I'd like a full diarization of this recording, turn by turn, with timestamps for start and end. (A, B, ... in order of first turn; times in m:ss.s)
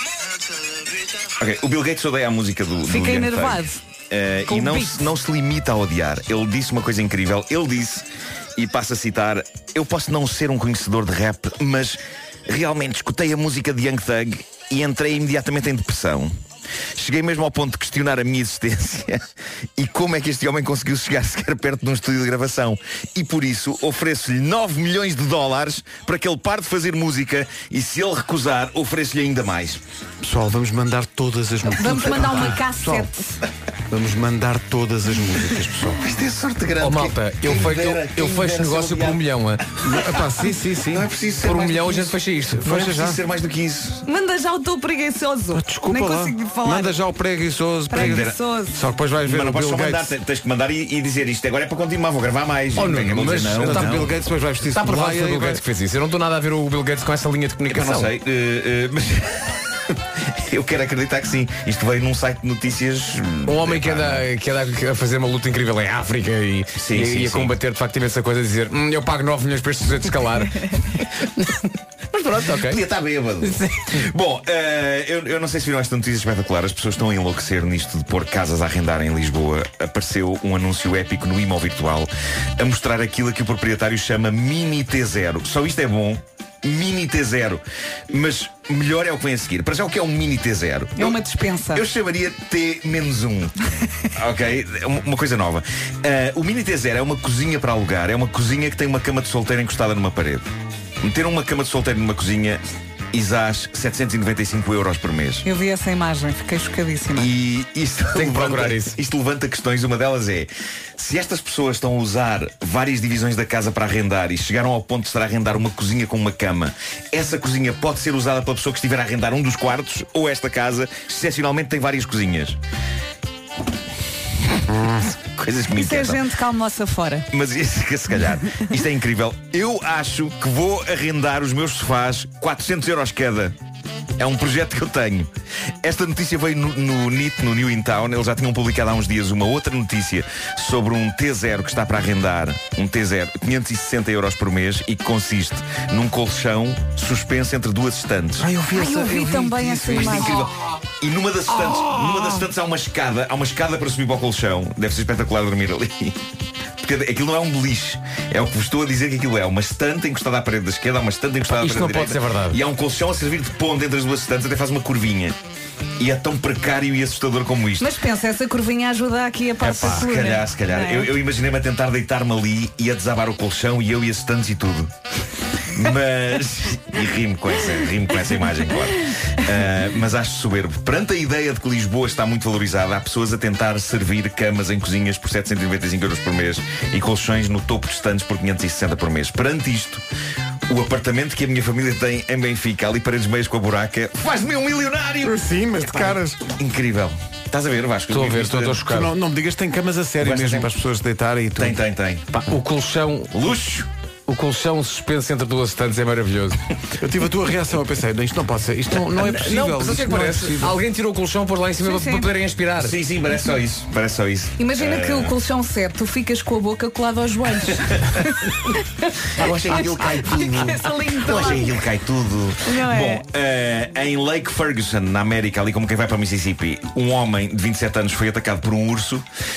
0:01.4-0:08.0 A
0:02.9-0:03.8 B
0:04.5-0:05.1 B
0:08.6-0:16.4 A
0:17.0-0:19.2 A
0:19.8-0:29.8 A
0:30.2-0:33.1 C
0:31.7-0:33.4 B
0:33.9-0:36.0 C
0:35.9-0:39.2 A
0:36.8-0:39.6 D
0:39.8-0:41.1 C
0:39.9-0:40.2 A
0:40.8-0:44.0 A
0:41.4-0:42.7 D
0:42.6-0:43.2 C
0:44.1-0:47.0 B
0:45.5-0:50.1 C
0:47.9-0:48.8 B
0:48.0-0:48.4 A
0:49.2-0:54.1 A
0:52.8-0:54.1 D
0:53.4-0:55.6 C
0:54.6-0:58.1 D
0:57.7-0:59.6 A
1:00.4-1:04.2 A
1:03.5-1:10.8 D
1:06.8-1:07.6 A
1:12.1-1:12.8 D
1:12.6-1:31.2 A
1:13.5-1:13.9 D
1:31.0-1:31.8 B
1:31.7-1:33.5 A
1:34.2-1:40.5 A
1:41.0-1:42.6 A
1:43.1-1:45.4 A
1:45.4-1:47.3 B
1:47.2-2:02.6 A
1:48.2-1:49.0 D
2:04.7-2:05.1 C
2:05.2-2:06.2 A
2:05.7-2:07.3 B
2:07.3-2:13.6 A
2:14.2-2:15.3 A
2:15.8-2:28.5 A
2:28.4-2:30.5 C
2:28.7-2:30.4 B
2:30.0-2:36.2 A
2:36.8-2:45.4 A
2:41.5-2:42.6 D
2:46.0-2:47.9 A
2:47.8-2:51.1 B
2:49.6-2:50.1 D
2:49.8-2:54.9 A
2:55.7-3:10.0 A
3:10.7-3:18.8 A
3:15.2-3:16.4 C
3:18.1-3:19.1 D
3:18.8-3:21.8 C
3:20.2-3:20.7 A
3:21.6-3:22.3 A
3:22.3-3:23.4 D
3:23.3-3:23.9 A
3:24.3-3:26.6 D
3:27.0-3:30.8 C
3:29.1-3:33.0 D
3:31.8-3:32.3 B
3:32.8-3:35.3 A
3:34.6-3:38.0 B
3:39.4-3:49.2 A
3:40.2-3:41.7 B
3:42.7-3:43.2 B